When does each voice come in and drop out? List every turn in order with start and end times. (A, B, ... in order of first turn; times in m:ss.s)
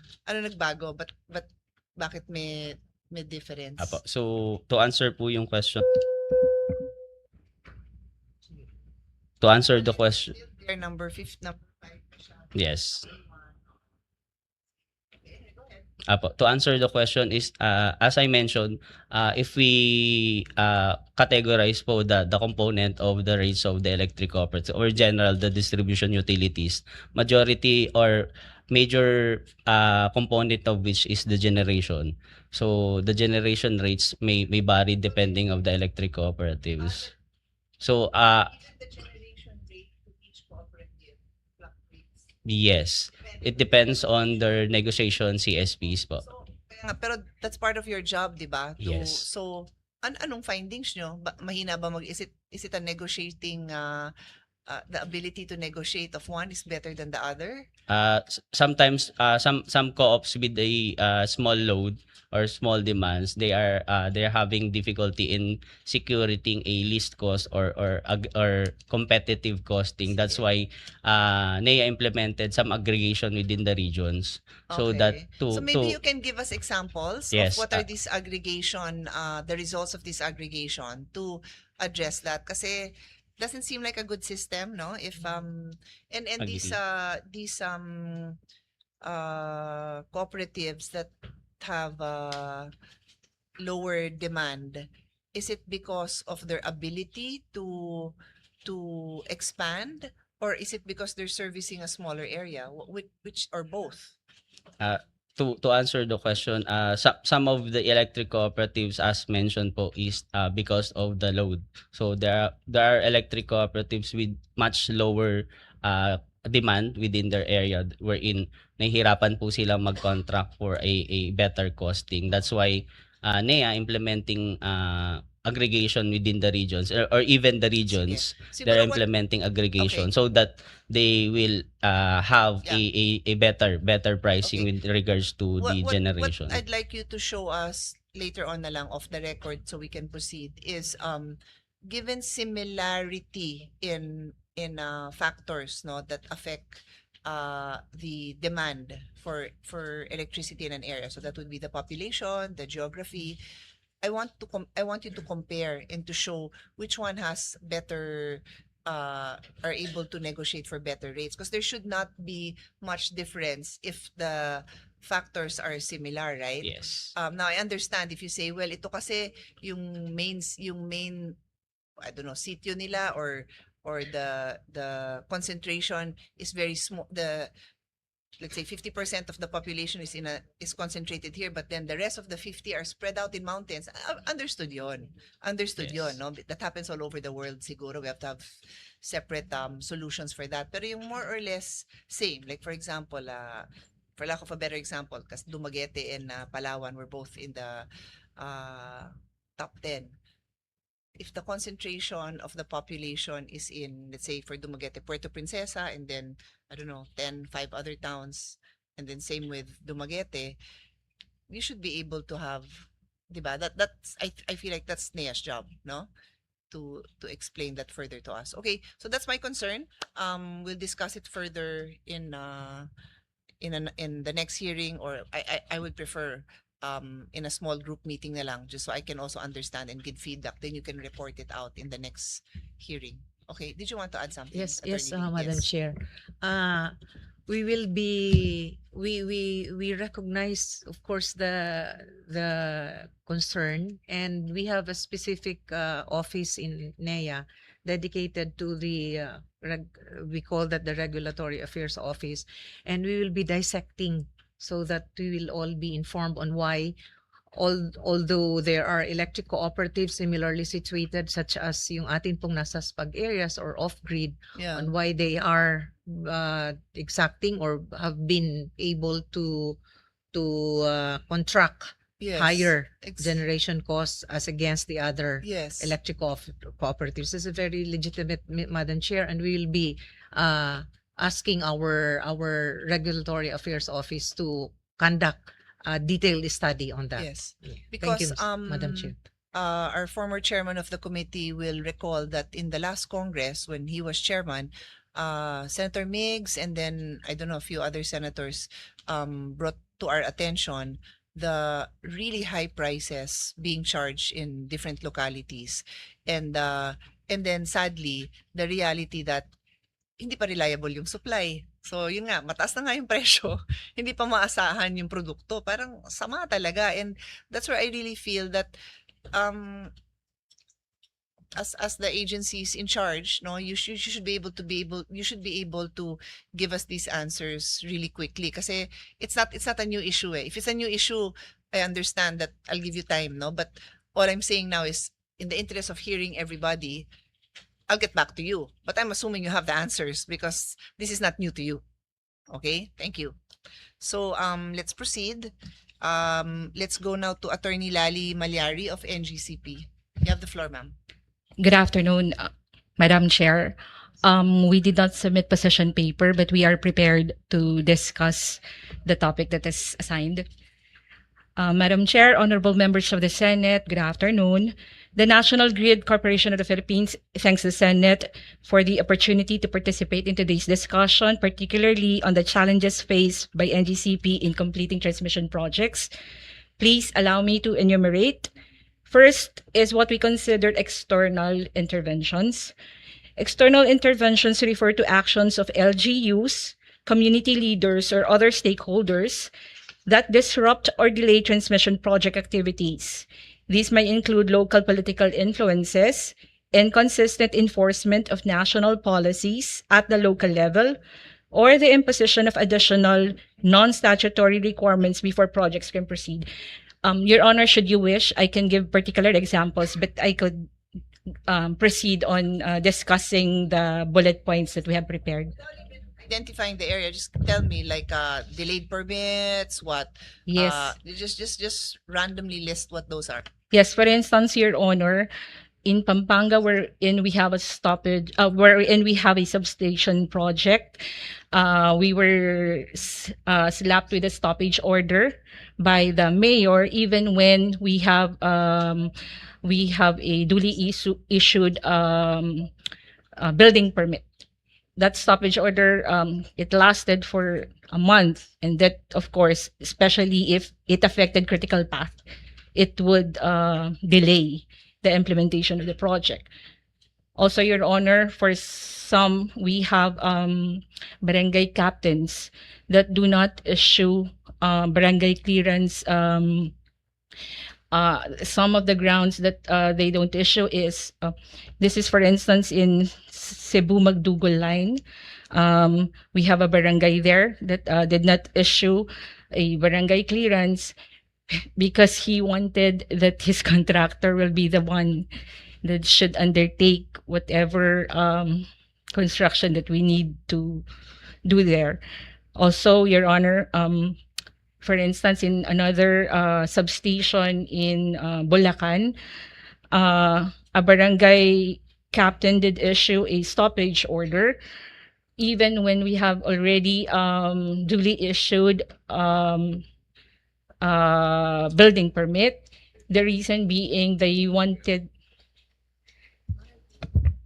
0:00.3-0:04.0 A
0:03.8-0:05.9 B
0:09.4-0:10.3 B
0:09.7-0:12.6 A
0:12.5-0:13.1 B
0:13.1-0:13.4 A
0:16.1-0:37.1 B
0:37.8-0:38.6 B
0:38.5-0:42.2 A
0:42.4-0:46.3 B
0:46.2-0:54.1 A
0:48.8-0:49.3 B
0:54.7-0:57.7 A
0:57.9-1:16.0 B
1:14.7-1:28.4 A
1:17.3-1:17.8 B
1:26.4-1:26.8 B
1:29.0-1:32.7 A
1:33.6-1:44.2 A
1:44.8-2:16.6 B
2:07.9-2:09.0 A
2:09.8-2:10.1 A
2:14.4-2:14.7 A
2:15.6-2:33.4 A
2:34.0-2:51.4 A
2:46.6-2:47.1 B
2:52.0-2:57.5 A
2:58.4-3:08.5 A
3:05.8-3:06.2 B
3:09.0-3:20.2 A
3:21.2-3:30.6 A
3:31.5-3:36.1 A
3:36.7-3:42.9 A
3:43.6-3:55.6 A
3:54.5-3:57.0 C
3:57.5-4:17.0 C
4:17.5-4:29.8 C
4:24.6-4:24.9 A
4:30.3-4:49.2 C
4:32.2-4:33.4 A
4:35.4-4:35.9 A
4:47.2-5:09.5 A
5:10.2-5:18.8 A
5:19.3-5:19.9 A
5:21.6-5:37.1 A
5:37.9-5:41.8 A
5:42.5-5:43.4 A
5:44.0-5:50.9 A
5:51.6-6:00.5 D
6:01.6-6:16.1 D
6:16.8-6:18.5 D
6:19.1-6:22.7 D
6:23.4-6:29.5 D
6:30.1-6:41.0 D
6:41.5-6:46.5 D
6:47.0-6:50.7 D
6:51.5-6:55.5 D
6:56.0-7:03.5 A
7:00.5-7:00.9 D
7:03.7-7:05.3 D
7:05.8-7:19.1 D
7:19.6-7:22.7 D
7:23.4-7:24.3 D
7:25.0-7:32.2 D
7:32.8-7:36.5 D
7:37.4-7:46.7 D
7:47.9-8:01.0 D
8:01.8-8:05.3 D
8:05.8-8:10.8 D
8:11.4-8:12.0 D
8:12.6-8:14.2 D
8:14.8-8:19.2 D
8:19.9-8:24.6 D
8:25.4-8:29.8 D
8:30.8-8:35.1 D